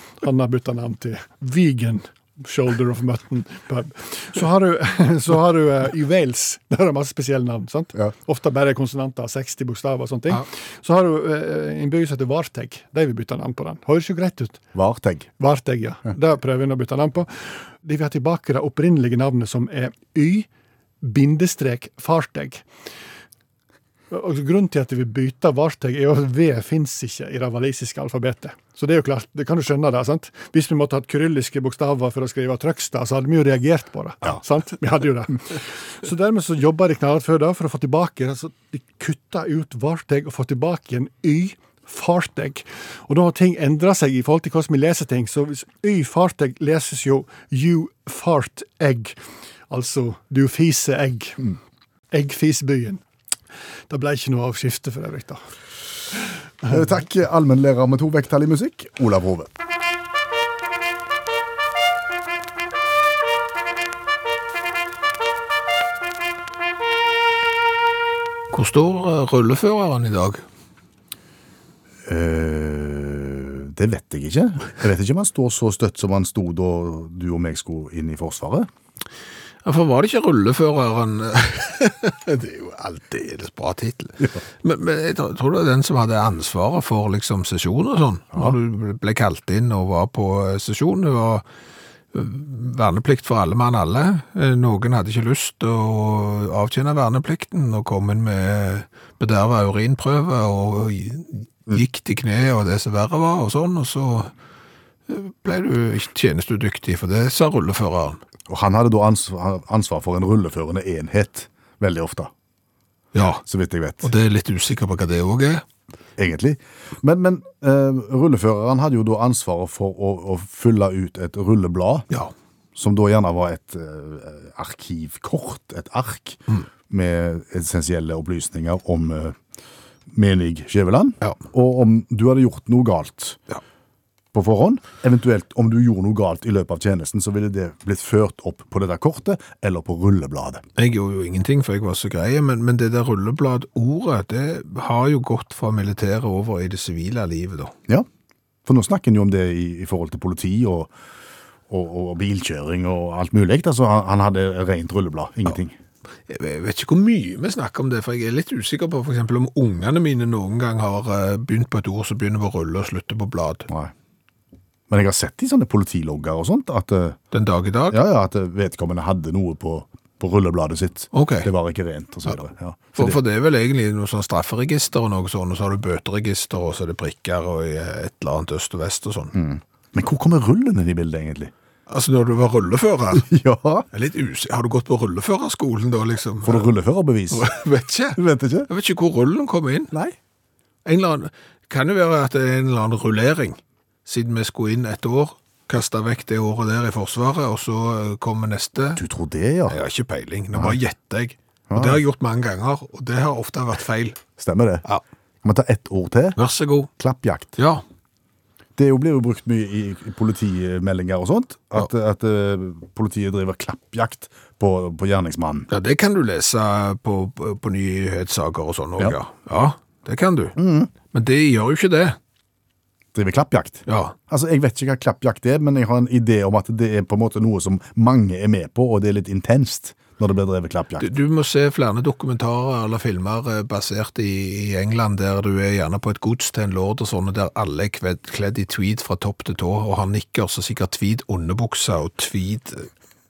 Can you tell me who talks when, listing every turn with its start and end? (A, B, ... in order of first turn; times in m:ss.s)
0:00.2-0:14.6 A
0:14.7-0:15.3 B
0:15.4-0:20.5 A
0:21.0-0:22.6 A
0:24.1-0:49.2 A
0:49.7-0:51.5 A
0:52.1-0:53.0 A
0:53.9-0:55.4 A
0:56.6-0:59.5 B
1:08.5-1:10.4 C
1:12.0-1:18.7 B
1:19.6-1:31.4 C
1:32.1-1:44.3 C
1:45.1-1:48.2 C
1:48.5-1:52.3 B
1:53.1-1:53.4 C
1:53.4-1:54.1 B
1:54.0-1:55.6 C
1:56.2-2:02.1 B
2:02.8-2:09.4 B
2:10.1-2:13.4 B
2:14.3-2:20.6 B
2:20.8-2:27.7 C
2:28.6-2:30.9 B
2:31.7-2:35.8 B
2:36.3-2:43.7 C
2:44.9-2:47.2 B
2:47.3-2:48.0 C
2:47.9-2:53.2 B
2:51.1-2:51.5 C
2:52.9-2:59.3 C
2:59.3-3:01.5 B
3:01.9-3:03.3 C
3:03.1-3:03.9 B
3:03.9-3:06.7 C
3:06.4-3:07.4 B
3:07.3-3:09.9 C
3:08.1-3:08.7 B
3:10.8-3:19.0 C
3:19.0-3:19.8 B
3:19.7-3:24.2 C
3:21.7-3:22.0 B
3:24.4-3:24.8 B
3:25.4-3:26.4 B
3:26.4-3:26.9 C
3:27.0-3:27.6 B
3:27.6-3:27.8 C
3:28.8-3:35.7 B
3:35.7-3:40.5 C
3:40.6-3:40.9 B
3:41.1-3:42.2 C
3:43.1-3:51.2 B
3:43.9-3:44.1 C
3:51.0-4:02.9 C